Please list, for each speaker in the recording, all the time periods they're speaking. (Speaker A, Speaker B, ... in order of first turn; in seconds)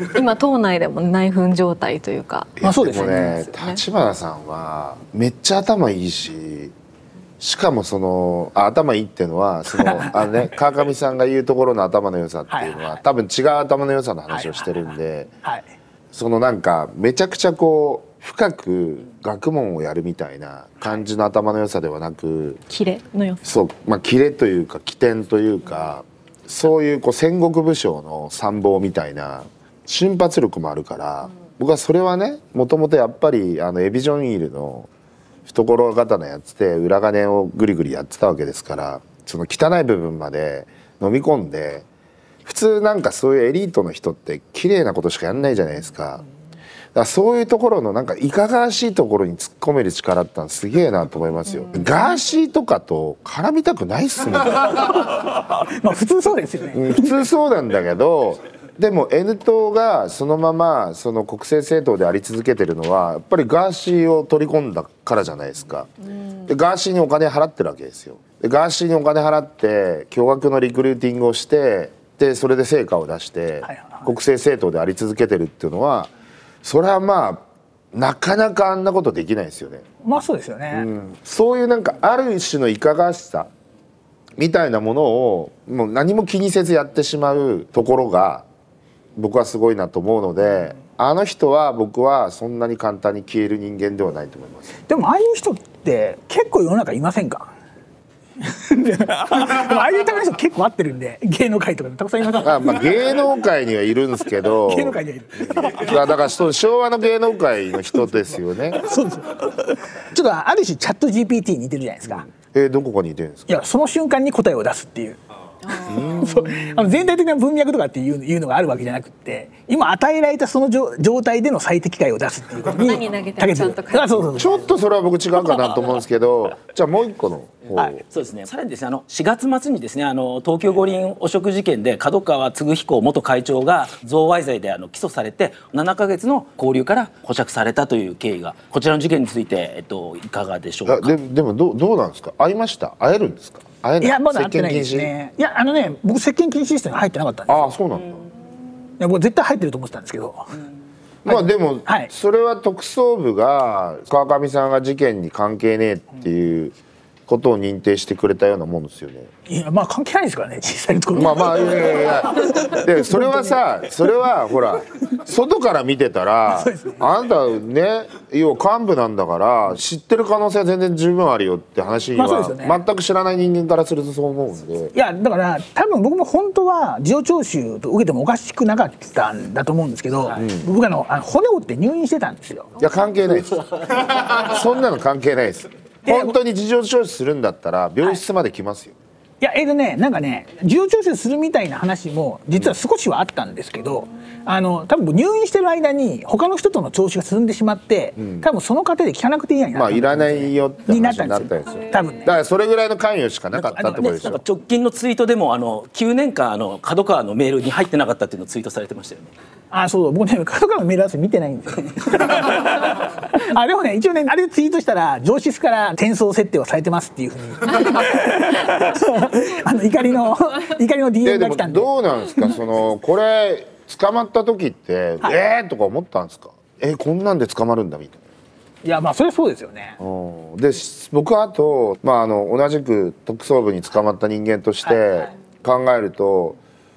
Speaker A: 0.1-3.8, 22.7-23.4, 115.7-116.1, 122.8-124.3
Speaker B: 2.6-6.7, 7.4-15.3, 16.1-22.6, 23.4-34.9, 35.5-41.9, 42.5-46.2, 46.9-55.0, 56.7-76.1, 76.6-79.8, 80.7-83.5, 84.4-88.5, 89.2-94.8, 102.4-108.8, 112.1-113.5, 115.9-116.9, 124.3-128.0, 140.9-145.1, 147.5-148.3, 151.2-156.8, 157.3-159.3, 161.1-174.9, 180.3-180.7, 182.8-188.9, 198.2-198.5, 199.7-204.4, 221.2-228.2, 230.0-236.6
Speaker C: 2.6-3.5, 9.7-10.2, 12.5-13.0, 14.3-15.7, 55.1-57.2, 73.6-74.1, 80.0-80.9, 94.9-97.5, 98.4-103.1, 104.4-106.2, 108.7-112.3, 113.5-124.7, 144.0-147.8, 149.0-150.5, 151.3-152.1, 159.5-163.6, 166.5-167.0, 172.1-172.8, 174.9-182.7, 186.1-186.4, 189.4-202.4, 203.5-204.4, 209.7-222.6, 228.8-230.0, 234.8-235.3
Speaker D: 128.1-141.2, 204.0-209.3